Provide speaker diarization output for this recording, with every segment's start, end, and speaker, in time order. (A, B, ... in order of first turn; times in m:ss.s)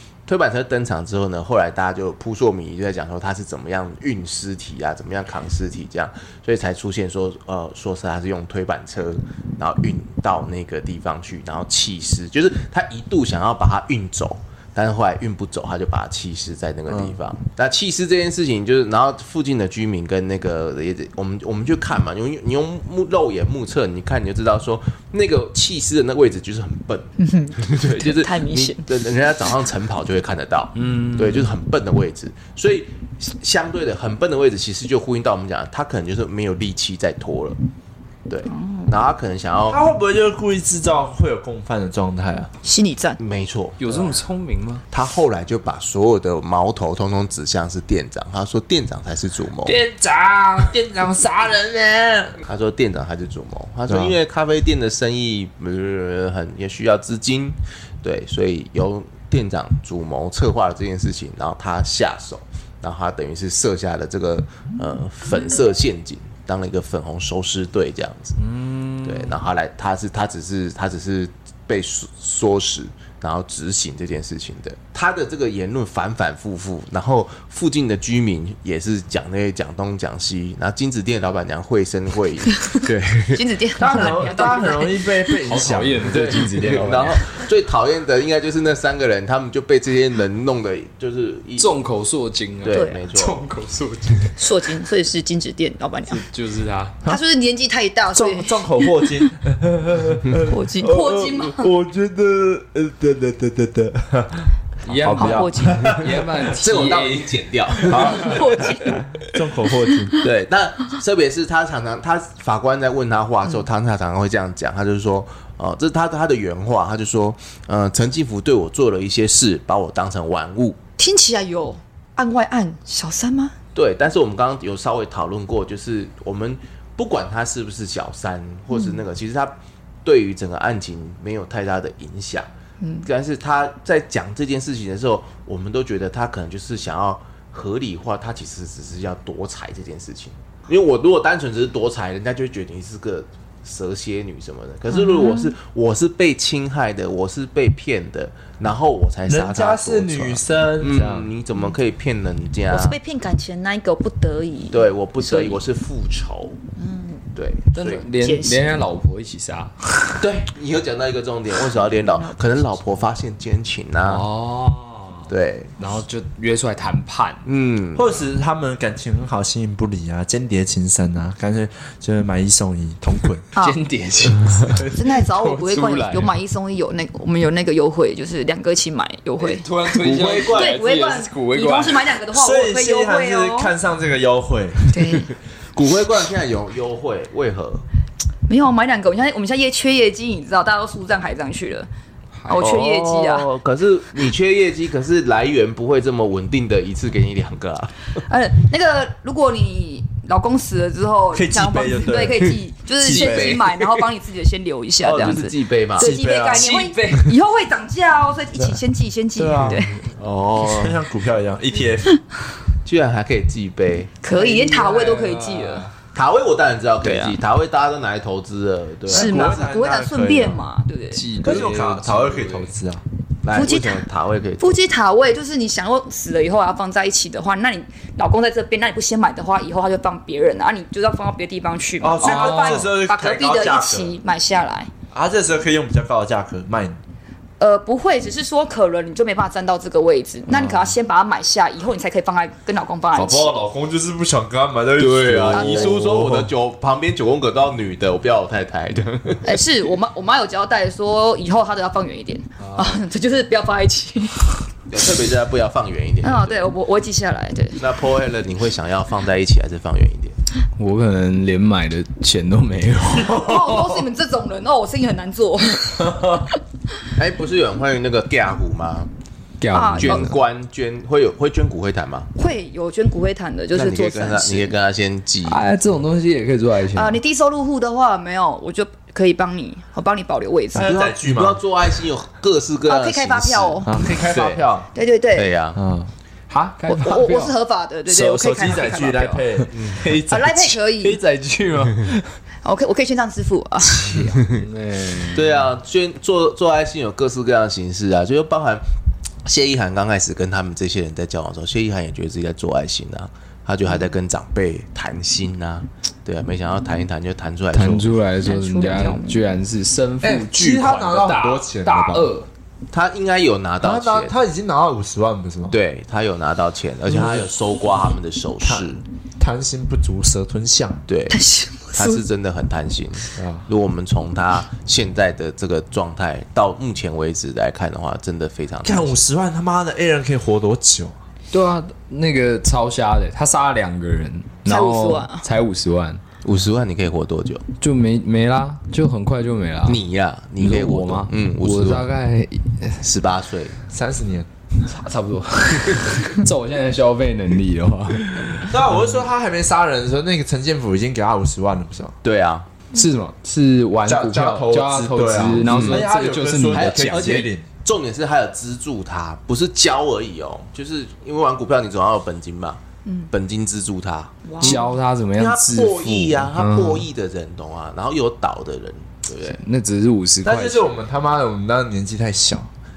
0:00.3-0:37.6 A
0:16.9-0:17.2 B
0:27.2-0:28.9 C
0:30.7-0:31.5 D
0:38.3-0:39.8 A
0:38.5-0:38.9 C
0:39.7-0:42.5 B
0:42.6-0:43.2 C
0:43.2-0:44.2 A
0:43.8-0:44.8 D
0:44.9-0:49.8 A
0:49.6-0:52.4 B
0:52.4-1:08.4 A
0:53.9-0:54.2 B
1:08.4-1:09.3 D
1:09.0-1:23.4 A
1:23.3-1:25.3 C
1:23.8-1:26.4 B
1:25.4-1:27.2 D
1:26.1-1:31.7 A
1:31.6-1:34.3 D
1:32.6-1:33.4 A
1:32.7-1:33.0 C
1:34.4-1:36.2 C
1:36.1-1:37.0 D
1:37.0-1:39.2 C
1:38.1-1:46.0 B
1:40.4-1:41.7 C
1:44.8-1:47.9 D
1:45.0-1:46.0 C
1:45.8-1:48.4 A
1:47.9-1:48.4 B
1:48.0-1:49.1 C
1:49.2-1:50.2 B
1:50.2-2:00.8 A
2:01.0-2:03.5 C
2:03.7-2:12.5 A
2:08.7-2:09.0 C
2:12.8-2:13.1 C
2:13.0-2:33.0 A
2:24.9-2:25.5 C
2:29.3-2:31.3 B
2:32.7-2:35.6 C
2:34.7-2:36.6 A
2:36.8-2:37.2 C
2:37.3-2:38.0 A
2:37.7-2:40.1 D
2:38.2-2:38.6 C
2:40.2-2:44.2 A
2:41.8-2:42.7 C
2:44.0-2:47.4 D
2:45.3-2:45.7 A
2:47.4-2:48.2 A
2:47.9-2:53.4 B
2:53.6-2:56.3 D
2:54.9-2:59.7 C
2:59.4-3:02.2 D
3:00.0-3:00.7 B
3:00.2-3:00.4 A
3:00.4-3:03.7 C
3:02.3-3:04.9 B
3:04.9-3:05.3 C
3:05.1-3:07.8 A
3:08.5-3:11.9 C
3:12.4-3:12.7 D
3:12.5-3:13.5 C
3:12.6-3:17.9 A
3:18.2-3:29.9 C
3:21.3-3:23.6 B
3:23.0-3:24.0 A
3:25.0-3:26.1 A
3:26.0-3:26.7 B
3:26.5-3:27.3 D
3:28.6-3:28.8 B
3:29.3-3:29.8 B
3:29.7-3:31.0 A
3:30.6-3:32.2 B
3:32.8-3:34.2 A
3:34.2-3:35.9 C
3:34.3-3:35.6 B
3:34.3-3:35.9 D
3:36.1-3:39.5 A
3:37.0-3:37.4 C
3:39.1-3:40.6 B
3:39.1-3:41.3 C
3:41.1-3:42.7 D
3:41.4-3:43.0 B
3:43.4-3:44.8 A
3:43.5-3:44.0 C
3:44.6-3:54.9 C
3:52.0-3:54.2 B
3:52.2-3:52.8 D
3:55.1-3:57.0 B
3:57.6-4:03.6 C
4:00.5-4:00.9 B
4:03.1-4:06.5 B
4:05.0-4:09.6 A
4:05.5-4:06.0 C
4:09.4-4:14.6 C
4:14.9-4:16.7 A
4:16.2-4:17.8 C
4:17.8-4:20.4 A
4:20.8-4:24.0 D
4:23.3-4:26.4 C
4:27.2-4:29.1 A
4:29.6-4:30.4 D
4:29.7-4:30.3 C
4:30.0-4:32.3 A
4:32.3-4:34.7 C
4:33.7-4:35.6 A
4:35.5-4:37.2 D
4:36.9-4:41.0 C
4:40.7-4:41.6 B
4:40.8-4:44.6 A
4:42.8-4:44.0 C
4:43.8-4:44.9 B
4:44.9-4:45.5 C
4:45.3-4:45.8 A
4:45.8-4:46.1 B
4:46.5-4:47.5 D
4:46.9-4:51.2 C
4:48.1-4:49.8 B
4:49.7-4:50.0 A
4:50.0-4:52.3 D
4:52.6-4:54.3 C
4:54.0-4:55.6 D
4:54.3-4:54.6 A
4:55.3-4:58.8 A
4:59.4-5:08.1 A
5:07.7-5:12.5 D
5:08.4-5:09.5 C
5:10.2-5:12.3 B
5:12.9-5:14.4 A
5:13.8-5:15.8 B
5:15.7-5:19.0 A
5:17.1-5:17.5 B
5:18.6-5:21.0 B
5:21.1-5:21.4 A
5:21.3-5:22.2 C
5:21.9-5:29.2 A
5:23.4-5:23.7 B
5:28.8-5:31.2 B
5:31.5-5:36.2 D
5:34.6-5:35.4 C
5:36.4-5:37.6 A
5:37.8-5:40.0 D
5:39.8-5:42.0 A
5:40.6-5:43.0 D
5:43.0-5:43.8 A
5:43.9-5:44.5 B
5:44.8-5:48.8 D
5:48.6-5:52.1 B
5:52.2-5:52.7 A
5:52.9-5:57.5 D
5:54.0-5:57.6 B
5:55.7-5:56.0 A
5:56.7-6:04.8 A
6:03.0-6:03.3 C
6:04.4-6:04.9 C
6:04.6-6:07.1 D
6:05.4-6:09.6 A
6:09.4-6:10.9 D
6:10.4-6:12.7 B